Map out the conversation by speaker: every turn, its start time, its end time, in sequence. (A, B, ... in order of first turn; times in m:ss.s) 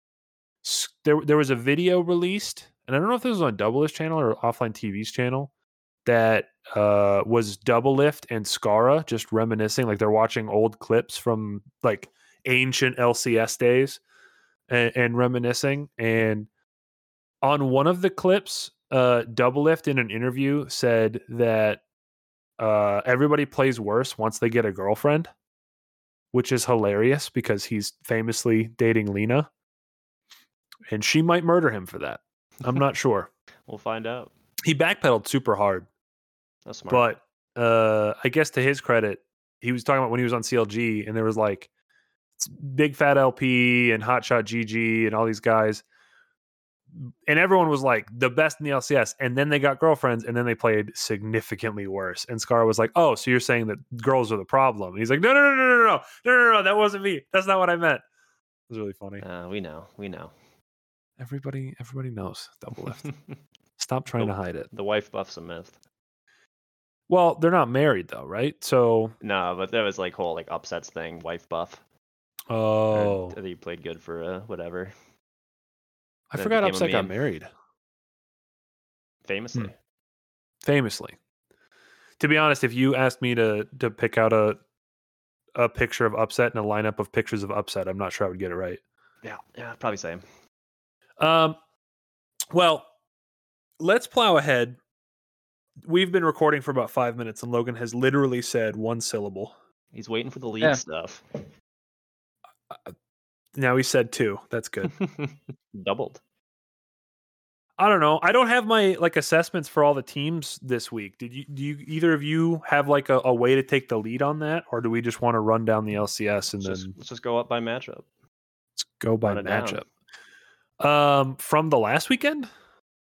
0:00.6-0:05.5 A
0:06.0-0:14.0 A
0:14.7-0:16.5 A
0:17.4-0:21.8 A
0:22.6-0:25.3 A
0:26.3-0:29.5 A
0:30.9-0:33.3 A
0:33.7-0:34.3 B
0:34.6-0:35.9 A
0:36.6-0:37.0 B
0:36.9-0:41.7 A
0:42.4-0:45.8 A
0:47.0-0:58.0 A
0:58.7-0:59.2 A
0:59.2-1:00.3 B
1:01.2-1:03.1 A
1:03.8-1:04.7 A
1:04.2-1:05.7 B
1:07.1-1:09.1 A
1:09.2-1:11.8 B
1:12.5-1:13.4 A
1:12.9-1:14.9 B
1:16.3-1:17.5 A
1:16.4-1:17.1 B
1:19.2-1:19.7 B
1:20.6-1:21.2 A
1:22.2-1:24.6 A
1:25.5-1:28.8 A
1:29.2-1:30.2 B
1:31.2-1:31.6 A
1:32.5-1:32.9 A
1:33.8-1:34.8 A
1:35.8-1:39.5 A
1:39.9-1:41.4 B
1:43.5-1:44.9 A
1:45.0-1:46.2 B
1:47.8-1:56.9 A
1:56.6-1:58.0 B
1:58.8-1:59.8 A
1:59.2-1:59.8 B
2:00.8-2:02.5 A